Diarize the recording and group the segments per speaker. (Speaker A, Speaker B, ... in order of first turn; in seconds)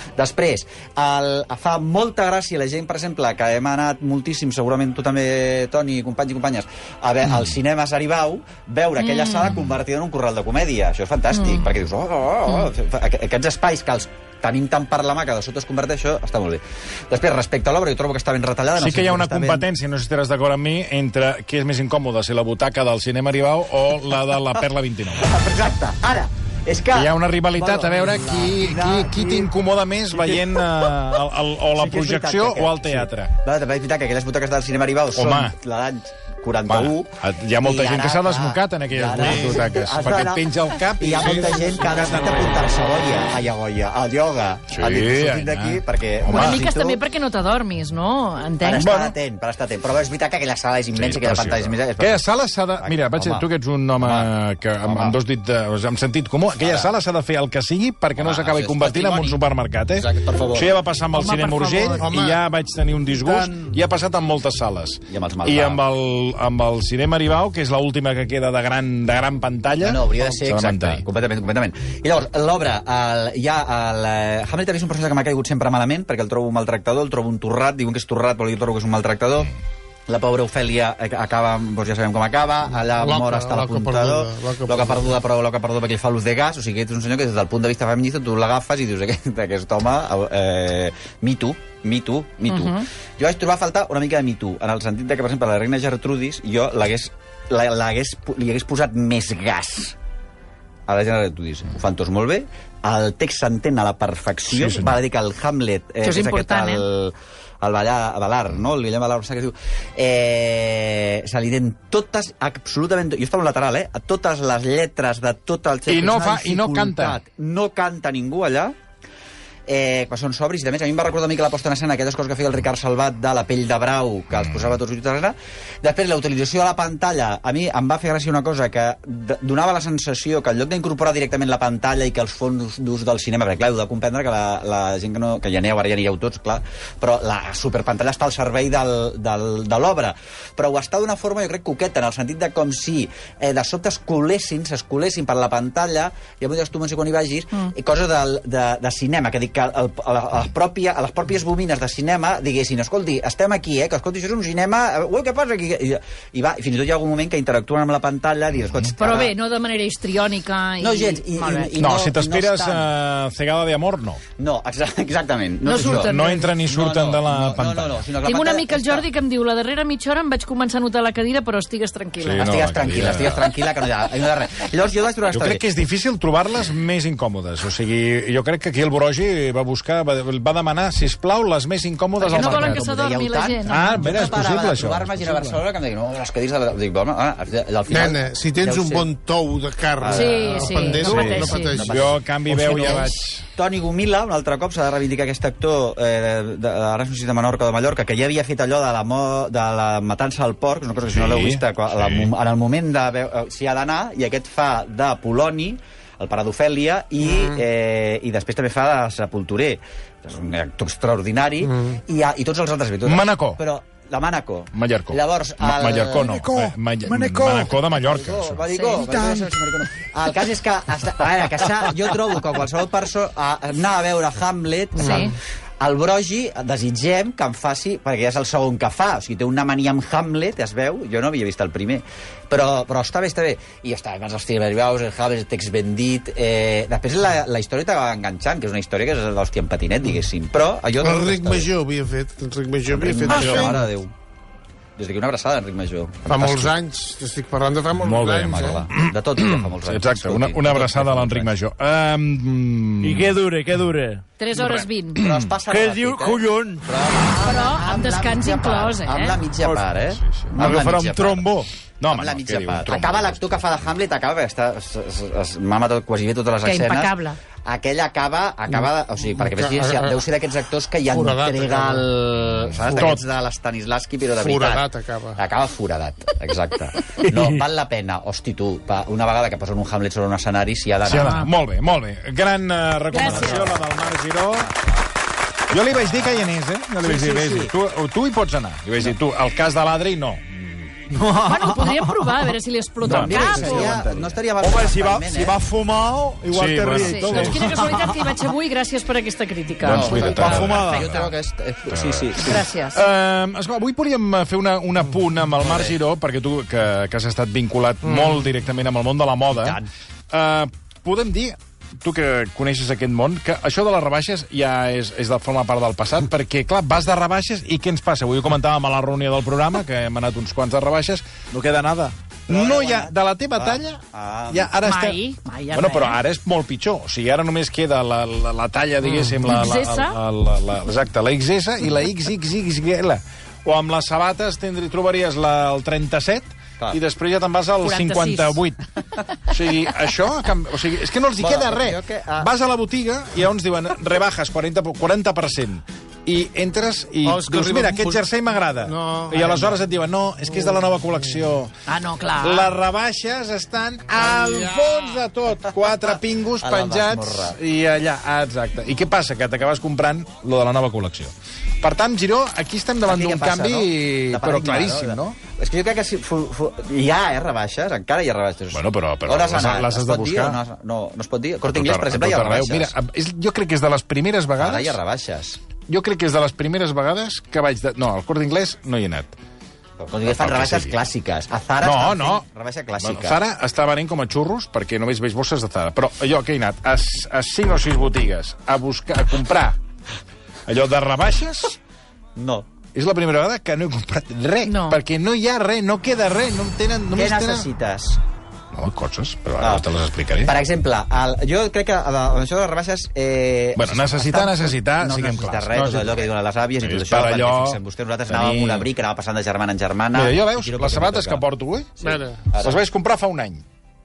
Speaker A: 0.2-19.7, 25.2-29.5, 30.1-30.6, 31.7-47.0, 48.6-52.2, 52.8-53.5, 54.0-54.3, 54.8-55.2, 56.6-56.9, 58.2-59.4, 59.9-60.7, 65.1-65.8, 69.8-79.5, 80.1-100.0, 100.9-118.7, 119.7-159.3, 160.8-162.9, 164.4-169.1, 172.4-175.6, 182.2-189.1, 190.0-216.6, 217.1-241.7, 242.9-244.1, 245.0-246.7, 248.5-251.5, 255.2-261.5, 262.1-267.1, 267.6-281.4, 283.1-284.2, 286.0-286.4, 287.0-287.7, 293.1-295.6, 299.9-302.7, 309.5-309.9, 322.5-324.7, 341.4-342.5, 355.5-357.6, 363.1-372.9, 374.6-375.6, 380.0-383.4, 392.4-392.6, 397.1-398.2, 399.6-399.9, 400.4-411.4, 412.0-412.8
Speaker B: 9.0-9.5, 46.3-49.1, 61.1-62.1, 92.4-92.8, 106.0-106.8, 159.0-161.7, 165.6-166.5, 168.2-172.5, 182.2-184.3, 190.1-191.7, 218.7-219.2, 225.0-225.3, 254.4-255.2, 257.4-259.4, 266.6-267.4, 281.2-281.4, 283.1-283.7, 291.5-293.9, 296.9-300.6, 302.4-303.0, 324.8-326.2, 329.0-330.2, 337.8-338.6, 351.9-352.7, 394.7-395.0
Speaker C: 18.8-25.3, 26.9-33.3, 35.1-35.5, 36.6-42.6, 44.7-46.7, 48.9-49.1, 50.9-71.0, 104.5-105.0, 115.9-117.2, 161.8-164.2, 165.8-168.1, 172.2-173.5, 175.3-182.9, 183.7-185.6, 191.0-193.4, 201.1-202.3, 213.0-213.6, 214.7-218.6, 243.3-243.8, 246.3-246.7, 248.0-253.4, 254.5-254.8, 259.6-260.8, 262.0-263.6, 272.6-273.2, 281.0-284.7, 285.7-291.3, 293.0-294.3, 296.5-297.9, 299.8-301.3, 301.9-325.2, 325.7-338.8, 339.4-351.7, 352.4-365.4, 368.7-370.6, 371.7-375.0, 375.9-379.3, 380.2-380.9, 381.8-382.4, 383.0-389.8, 390.6-391.8, 392.9-397.7, 398.7-400.5, 403.8-406.3, 406.8-408.9, 410.1-412.0, 412.6-413.6
Speaker D: 39.1-39.7, 62.0-62.4, 63.2-63.5, 83.0-85.2, 187.9-192.1, 207.2-207.5, 211.6-211.9, 224.9-225.3, 241.0-243.8, 246.3-248.8, 269.4-270.1, 271.1-272.1, 274.4-275.4, 347.2-348.2, 348.8-349.8, 350.5-351.4, 354.1-355.2, 412.0-412.4
Speaker E: 243.3-243.7, 253.0-254.2, 255.7-256.8, 260.6-261.7, 291.3-292.1, 293.1-294.0, 294.6-298.1, 300.0-301.3